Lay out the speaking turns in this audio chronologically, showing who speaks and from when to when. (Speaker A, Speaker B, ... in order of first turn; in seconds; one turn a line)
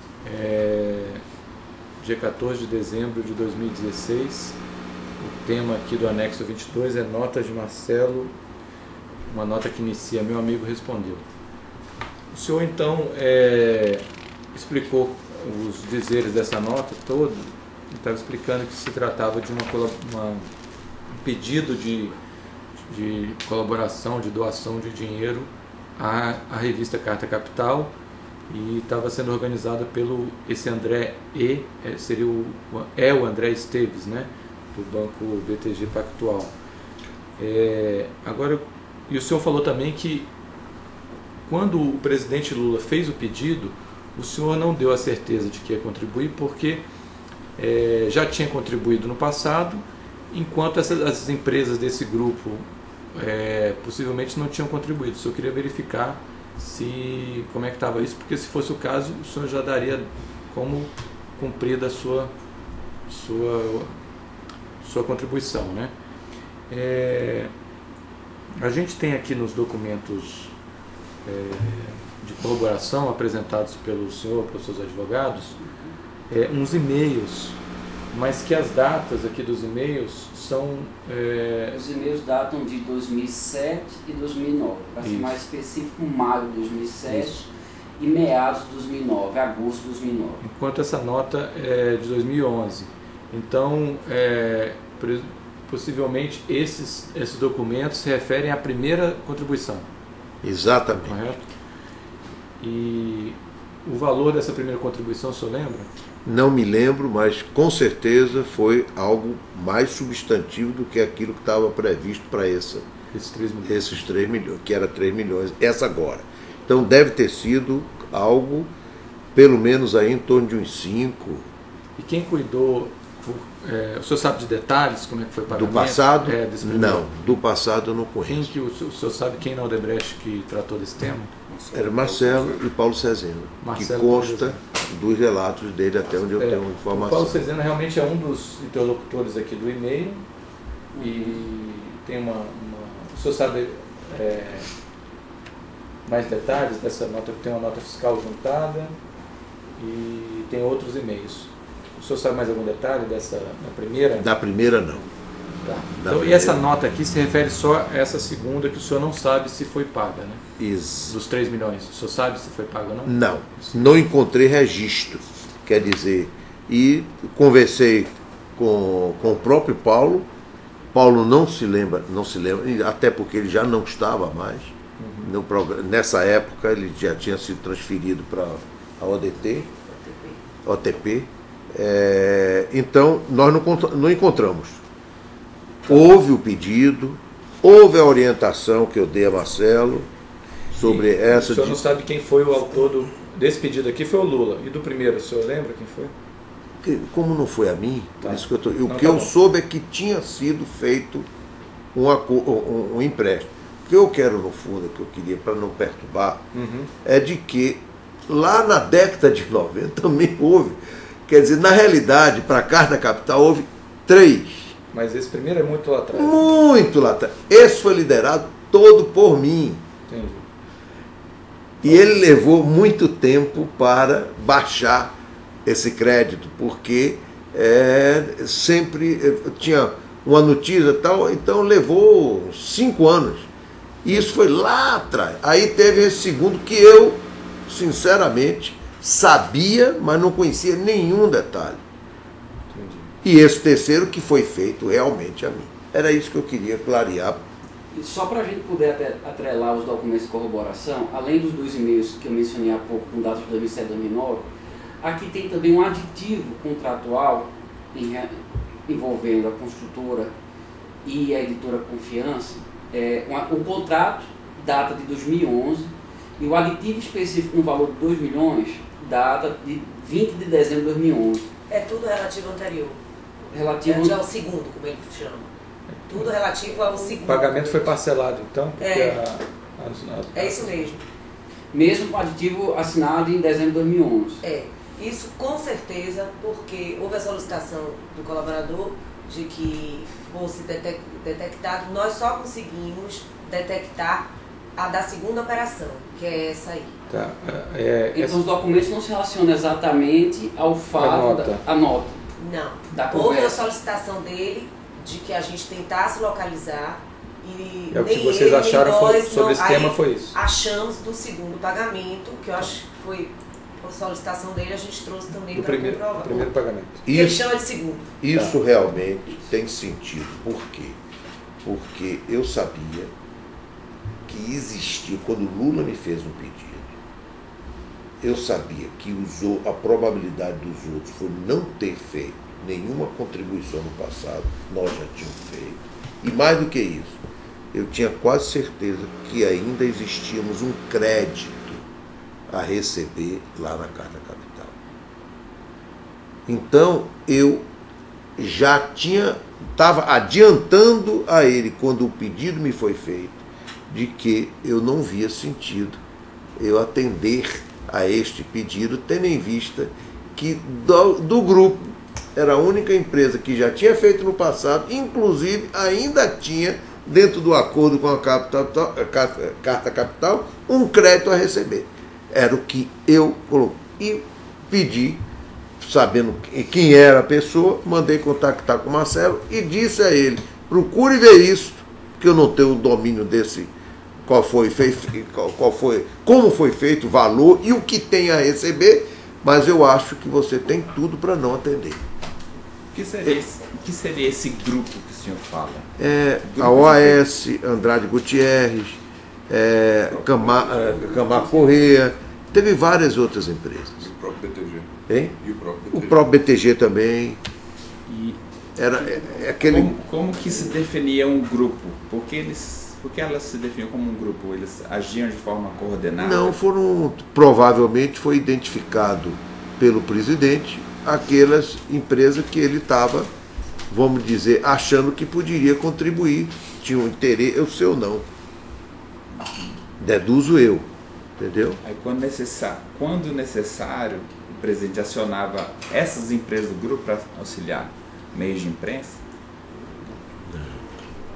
Speaker A: 0.2-1.2
Speaker A: 2.0-4.6
Speaker A: 5.2-8.3
Speaker A: 9.3-11.2
Speaker A: 12.3-20.5
Speaker A: 21.1-22.1
Speaker A: 22.9-27.9
Speaker A: 28.5-36.5
Speaker A: 37.4-40.3
Speaker A: 41.5-46.8
Speaker A: 47.6-62.3
Speaker A: 63.1-63.9
Speaker A: 64.8-65.9
Speaker A: 66.7-67.5
Speaker A: 68.6-70.5
Speaker A: 71.2-75.6
Speaker A: 76.3-77.6
Speaker A: 78.1-81.8
Speaker B: 81.7-87.5
Speaker A: 85.0-85.4
Speaker A: 87.1-87.4
Speaker B: 88.0-90.4
Speaker A: 90.4-99.8
Speaker C: 100.4-101.2
Speaker A: 101.0-101.5
Speaker A: 102.6-105.9
Speaker C: 106.2-112.8
Speaker A: 113.1-113.8
Speaker C: 113.6-118.7
Speaker C: 119.3-121.4
Speaker A: 122.0-127.4
Speaker C: 125.5-128.5
Speaker A: 128.3-131.3
Speaker D: 131.5-132.6
Speaker C: 131.7-137.4
Speaker A: 133.6-134.6
Speaker A: 136.4-140.2
Speaker B: 140.9-141.4
Speaker A: 141.0-144.7
Speaker A: 146.1-148.9
Speaker A: 149.8-154.3
Speaker C: 154.2-155.0
Speaker A: 155.6-160.4
Speaker C: 155.9-156.6
Speaker C: 160.6-161.2
Speaker A: 161.1-164.0
Speaker C: 163.0-170.3
Speaker C: 170.9-179.7
Speaker A: 175.0-175.3
Speaker E: 179.9-180.4
Speaker C: 180.6-184.8
Speaker C: 185.8-190.1
Speaker C: 190.7-191.8
Speaker A: 190.8-196.1
Speaker C: 196.8-201.3
Speaker A: 198.2-199.3
Speaker C: 201.9-206.4
Speaker A: 206.5-206.9
Speaker C: 207.0-214.7
Speaker A: 214.9-216.5
Speaker C: 216.1-219.8
Speaker A: 220.1-220.4
Speaker C: 221.8-233.5
Speaker C: 234.0-241.8
Speaker A: 242.7-243.1
Speaker C: 243.2-247.4
Speaker B: 247.9-254.5
Speaker B: 255.0-260.3
Speaker B: 261.0-271.5
Speaker E: 271.7-273.0
Speaker B: 273.5-274.2
Speaker E: 273.8-275.5
Speaker A: 275.9-276.3
Speaker E: 276.1-278.0
Speaker A: 277.0-280.9
Speaker E: 278.8-279.2
Speaker E: 280.3-281.0
Speaker B: 281.7-284.4
Speaker E: 284.4-296.9
Speaker A: 297.1-298.4
Speaker B: 298.1-302.2
Speaker A: 300.9-301.6
Speaker E: 302.4-316.5
Speaker B: 302.9-303.6
Speaker A: 307.9-310.4
Speaker A: 315.5-317.0
Speaker C: 317.1-317.4
Speaker E: 317.1-318.1
Speaker C: 318.2-321.0
Speaker C: 321.6-323.1
Speaker C: 324.3-326.9
Speaker C: 328.2-337.2
Speaker C: 337.7-341.8
Speaker C: 342.5-344.7
Speaker C: 346.5-347.7
Speaker C: 348.4-356.0
Speaker C: 356.6-375.2
Speaker C: 375.8-383.7
Speaker C: 384.2-392.0
Speaker F: 392.9-395.9
Speaker C: 396.0-404.1
Speaker F: 396.4-397.2
Speaker D: 400.1-401.5
Speaker D: 404.0-404.9
Speaker C: 405.1-405.4
Speaker D: 405.4-406.2
Speaker C: 405.9-407.4
Speaker F: 408.1-408.4
Speaker C: 408.8-409.9
Speaker F: 409.6-416.6
Speaker C: 416.2-423.3
Speaker C: 423.9-428.2
Speaker C: 430.0-430.9
Speaker C: 431.4-431.8
Speaker F: 431.8-439.2